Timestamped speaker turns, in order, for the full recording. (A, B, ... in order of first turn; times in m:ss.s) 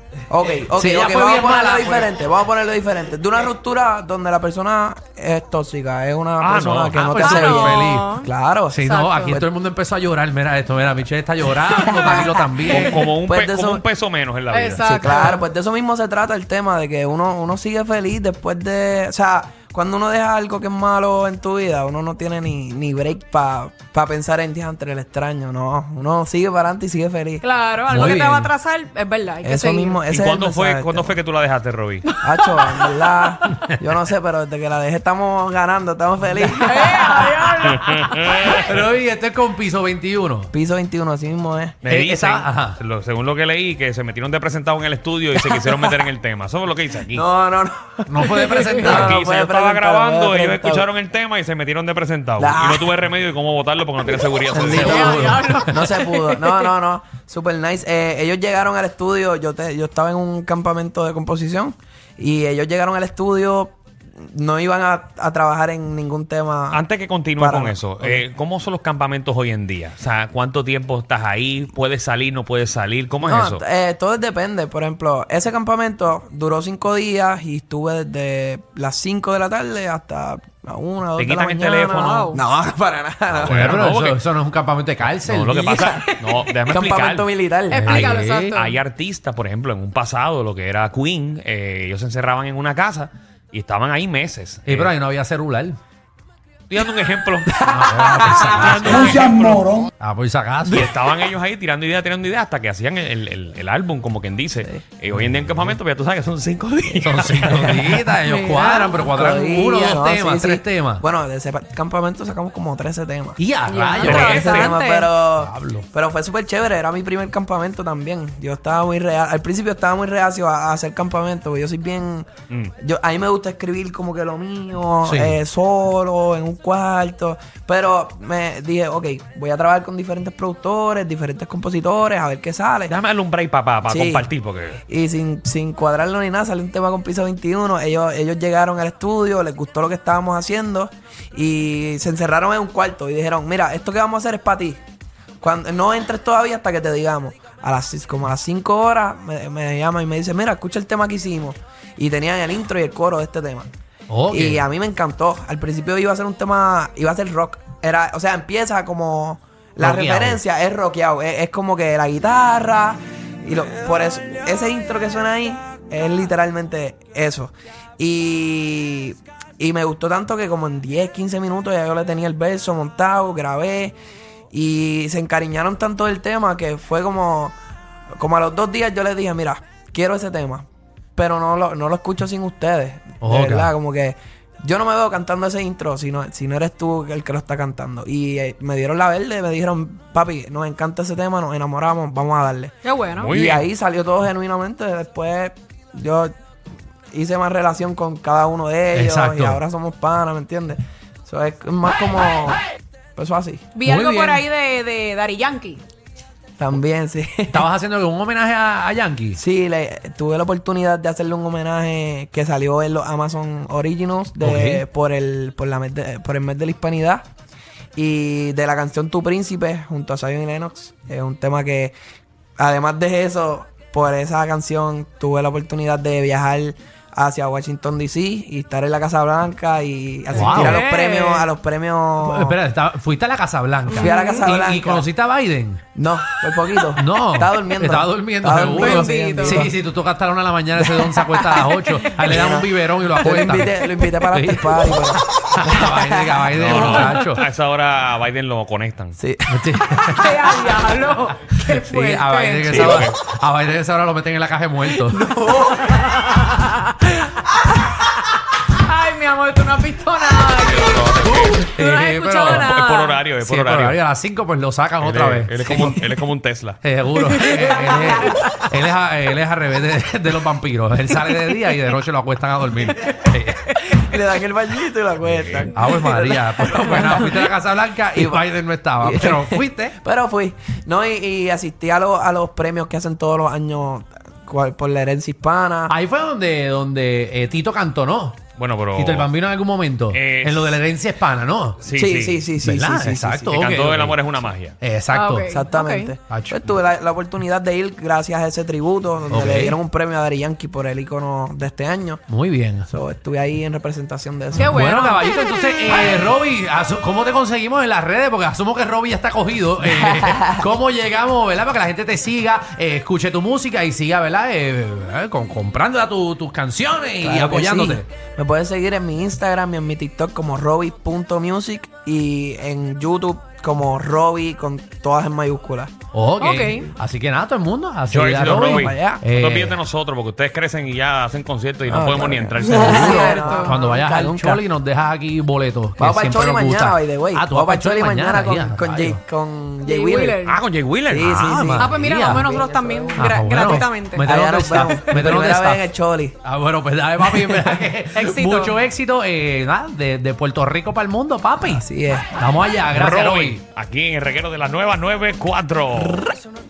0:00.3-0:09.5 A
0:00.6-0:02.1 B
0:06.4-0:07.2 C
0:07.0-0:08.2 B
0:07.2-0:09.4 D
0:08.7-0:13.0 B
0:11.8-0:12.3 D
0:12.7-0:15.0 C
0:13.2-0:13.8 A
0:14.5-0:15.5 D
0:14.8-0:27.4 A
0:27.4-0:30.0 D
0:27.9-0:28.5 B
0:29.4-0:31.2 A
0:30.1-0:32.1 C
0:32.1-0:33.3 D
0:32.2-0:37.5 A
0:36.6-0:38.3 D
0:37.6-0:38.8 C
0:38.5-0:40.5 B
0:40.5-0:41.8 A
0:41.8-0:47.2 C
0:41.9-0:42.8 B
0:47.1-0:50.9 A
0:48.1-0:49.2 B
0:48.2-0:48.8 D
0:48.8-0:55.2 C
0:52.4-0:53.0 A
0:54.5-0:55.1 A
0:54.7-0:55.6 B
0:54.8-0:56.7 D
0:55.7-1:06.8 A
1:06.7-1:13.6 C
1:07.4-1:08.2 A
1:13.2-1:23.9 A
1:21.2-1:22.4 C
1:23.3-1:24.2 C
1:23.5-1:25.6 B
1:25.0-1:27.3 C
1:25.5-1:27.9 A
1:27.7-1:28.8 D
1:27.7-1:28.6 B
1:27.8-1:34.9 C
1:34.7-1:35.8 B
1:36.7-1:39.9 C
1:37.5-1:38.9 A
1:37.6-1:39.2 B
1:40.0-1:40.9 B
1:40.7-1:48.2 C
1:47.0-1:51.0 B
1:48.2-1:49.1 D
1:49.1-1:53.4 A
1:53.4-1:54.6 B
1:53.6-1:55.1 D
1:54.0-2:13.0 A
1:54.0-1:54.8 C
1:55.2-1:55.9 B
2:05.0-2:05.4 B
2:12.9-2:14.8 C
2:13.8-2:14.3 A
2:14.8-2:24.8 A
2:25.4-2:33.7 A
2:34.1-2:34.6 B
2:34.3-2:54.0 A
2:39.8-2:40.4 B
2:54.5-2:57.6 A
2:58.2-3:12.8 A
3:03.2-3:03.7 B
3:12.8-3:13.4 D
3:13.2-3:13.7 C
3:13.3-3:16.3 A
3:17.1-3:22.6 A
3:18.9-3:19.6 B
3:23.2-3:23.7 A
3:23.8-3:25.8 D
3:23.8-3:24.4 B
3:26.6-3:27.7 A
3:27.5-3:29.4 B
3:29.3-3:37.3 A
3:34.4-3:34.8 B
3:38.0-3:42.0 A
3:42.6-3:52.6 A
3:50.3-3:50.9 B
3:50.5-3:51.5 D
3:52.2-3:55.8 B
3:53.9-3:54.6 D
3:53.9-3:55.1 A
3:56.0-3:59.7 A
3:56.7-4:07.4 B
3:58.6-3:59.7 D
4:00.8-4:01.7 A
4:01.4-4:02.3 D
4:02.2-4:07.2 A
4:06.5-4:09.2 C
4:06.8-4:07.1 D
4:09.2-4:10.2 A
4:09.5-4:10.5 B
4:10.1-4:13.0 D
4:11.6-4:15.2 B
4:12.6-4:13.2 C
4:15.1-4:16.1 A
4:15.9-4:17.1 D
4:18.7-4:23.2 D
4:20.6-4:21.7 C
4:21.2-4:22.7 B
4:22.4-4:24.0 C
4:23.4-4:26.0 B
4:25.0-4:26.8 C
4:26.8-4:34.0 B
4:27.3-4:28.5 D
4:33.8-4:37.5 A
4:35.2-4:40.0 B
4:38.1-4:38.5 A
4:39.0-4:45.9 A
4:45.9-4:48.4 B
4:48.6-4:49.3 C
4:49.0-4:51.8 B
4:50.1-4:50.8 C
4:51.8-4:52.5 C
4:52.0-4:53.6 A
4:52.6-4:54.2 B
4:53.5-4:54.8 C
4:54.8-4:55.5 B
4:55.1-4:56.2 D
4:55.5-5:02.2 A
4:56.3-4:56.7 B
4:59.3-4:59.8 B
5:02.3-5:02.9 B
5:02.9-5:04.8 A
5:04.6-5:18.0 B
5:04.6-5:05.3 D
5:10.2-5:10.6 A
5:17.2-5:25.9 A
5:26.1-5:29.8 B
5:26.4-5:26.9 D
5:28.1-5:33.6 C
5:28.4-5:29.2 A
5:31.9-5:34.6 A
5:32.8-5:39.2 B
5:33.0-5:34.0 D
5:36.0-5:40.4 A
5:39.8-5:40.6 D
5:40.5-5:41.7 C
5:41.1-5:46.4 A
5:41.2-5:42.5 B
5:41.8-5:44.3 D
5:43.1-5:45.9 B
5:46.4-5:51.8 B
5:48.2-5:48.8 D
5:51.6-5:52.3 A
5:52.4-5:53.6 B
5:52.9-5:56.3 C
5:56.0-5:56.3 A